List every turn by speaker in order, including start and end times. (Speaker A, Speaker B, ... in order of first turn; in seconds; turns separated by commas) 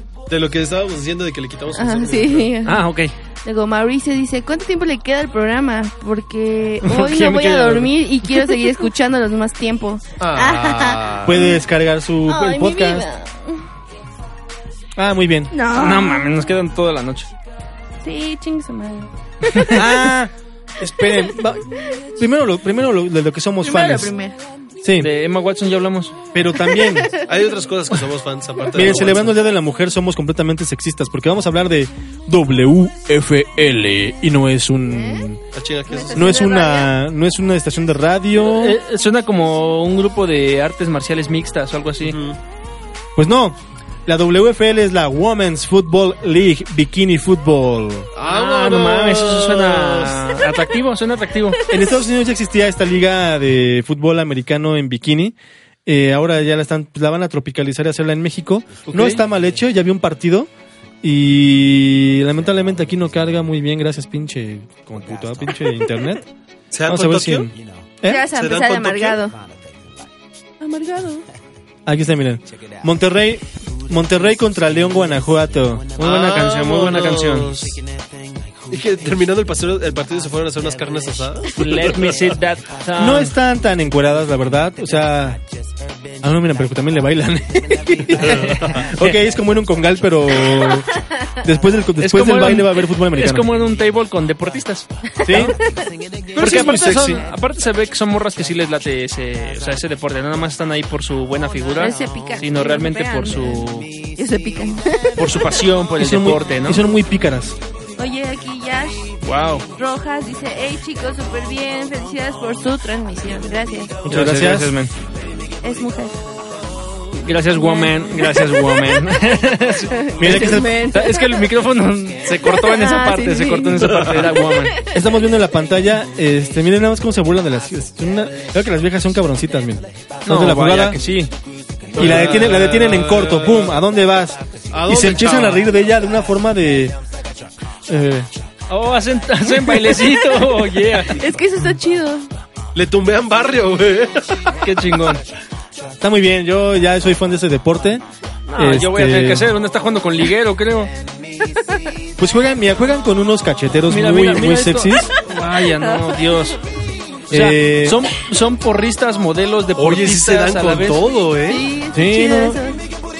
Speaker A: 0.3-2.5, Speaker B: 1.8-2.8, Speaker C: 2.6-3.1, Speaker B: 3.4-11.6, Speaker C: 6.8-7.9, Speaker A: 10.2-11.4, Speaker D: 11.2-13.1, Speaker B: 12.3-13.6, Speaker D: 14.9-15.5, Speaker B: 15.5-16.3, Speaker C: 15.7-17.3, Speaker B: 18.0-19.8, Speaker D: 19.7-21.6, Speaker D: 22.1-24.1, Speaker B: 23.6-24.4, Speaker D: 24.8-25.1, Speaker C: 25.0-26.2, Speaker D: 26.3-27.1, Speaker B: 26.6-27.3, Speaker A: 27.2-29.4, Speaker D: 28.7-35.4, Speaker B: 34.9-35.2, Speaker A: 35.5-36.4, Speaker B: 35.9-36.9, Speaker D: 36.1-38.8, Speaker C: 38.4-42.2, Speaker A: 42.0-42.4, Speaker D: 43.1-48.1, Speaker A: 48.1-50.2, Speaker C: 48.2-51.6, Speaker D: 51.7-60.5, Speaker A: 58.9-59.2, Speaker D: 61.0-66.2, Speaker A: 66.7-67.5, Speaker D: 66.8-68.3, Speaker B: 68.0-69.3, Speaker A: 68.2-69.2, Speaker B: 70.6-71.2, Speaker D: 71.8-75.9, Speaker C: 75.9-77.5, Speaker A: 76.0-77.8, Speaker A: 78.7-82.2, Speaker C: 81.5-83.3, Speaker D: 83.0-85.4, Speaker D: 86.2-90.9, Speaker C: 88.2-89.2, Speaker D: 91.4-93.5, Speaker C: 92.0-95.5, Speaker B: 95.2-95.9, Speaker D: 95.2-95.5, Speaker A: 96.3-97.2, Speaker C: 96.3-103.9, Speaker D: 96.4-97.0, Speaker B: 101.8-105.3, Speaker C: 105.2-106.8, Speaker D: 106.0-107.6, Speaker B: 108.0-109.1, Speaker C: 109.2-109.7, Speaker B: 109.8-114.0, Speaker D: 114.0-114.8, Speaker C: 114.1-114.9, Speaker B: 115.6-116.2, Speaker C: 117.1-124.7, Speaker B: 117.5-119.0, Speaker B: 119.9-121.5, Speaker D: 120.2-120.7, Speaker B: 122.4-124.9, Speaker A: 123.8-124.3, Speaker D: 124.9-131.0, Speaker C: 130.2-131.3, Speaker A: 131.9-133.8, Speaker D: 131.9-136.9, Speaker C: 131.9-133.0, Speaker A: 134.7-135.7, Speaker D: 137.9-138.3, Speaker C: 138.7-141.2, Speaker B: 141.1-142.3, Speaker A: 142.7-144.4, Speaker C: 144.6-145.2, Speaker D: 146.0-148.0, Speaker C: 148.5-150.9, Speaker D: 148.6-149.5, Speaker B: 151.6-151.8, Speaker D: 152.2-155.1, Speaker C: 153.9-156.6, Speaker D: 157.3-158.1, Speaker C: 157.3-161.1, Speaker A: 159.8-161.7, Speaker B: 161.5-162.8, Speaker D: 161.9-162.6